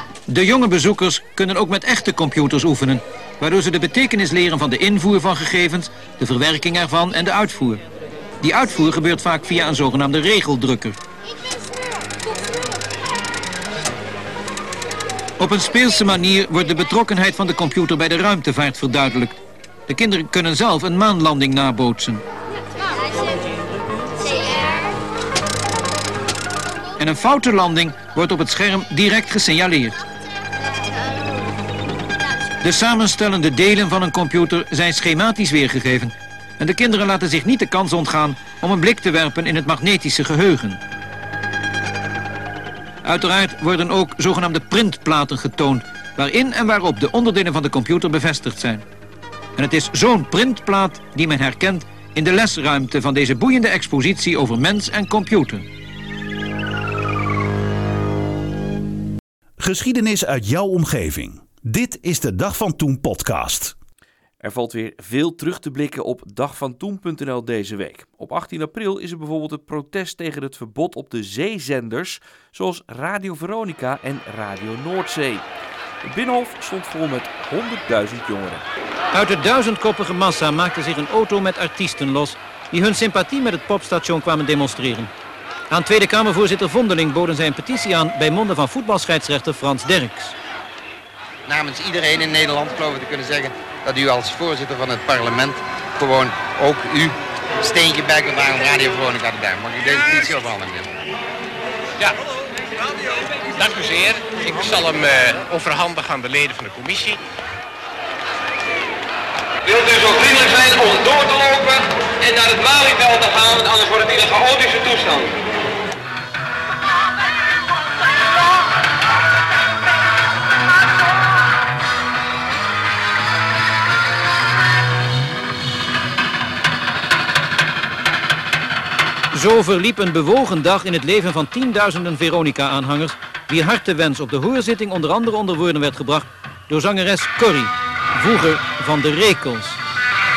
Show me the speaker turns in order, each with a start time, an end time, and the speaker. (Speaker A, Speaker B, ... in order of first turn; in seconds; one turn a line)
Speaker A: 0.3-7.8
Speaker A: 8.4-11.0
Speaker A: 15.4-19.3
Speaker A: 19.9-22.2
Speaker A: 27.0-30.0
Speaker A: 32.6-40.8
Speaker A: 43.0-48.8
Speaker A: 49.6-55.6
Speaker B: 59.6-63.7
Speaker C: 64.4-75.5
Speaker C: 76.0-78.6
Speaker A: 79.1-85.1
Speaker A: 85.7-90.3
Speaker D: 91.5-101.0
Speaker E: 103.2-107.2
Speaker F: 109.7-115.3
Speaker A: 129.3-139.8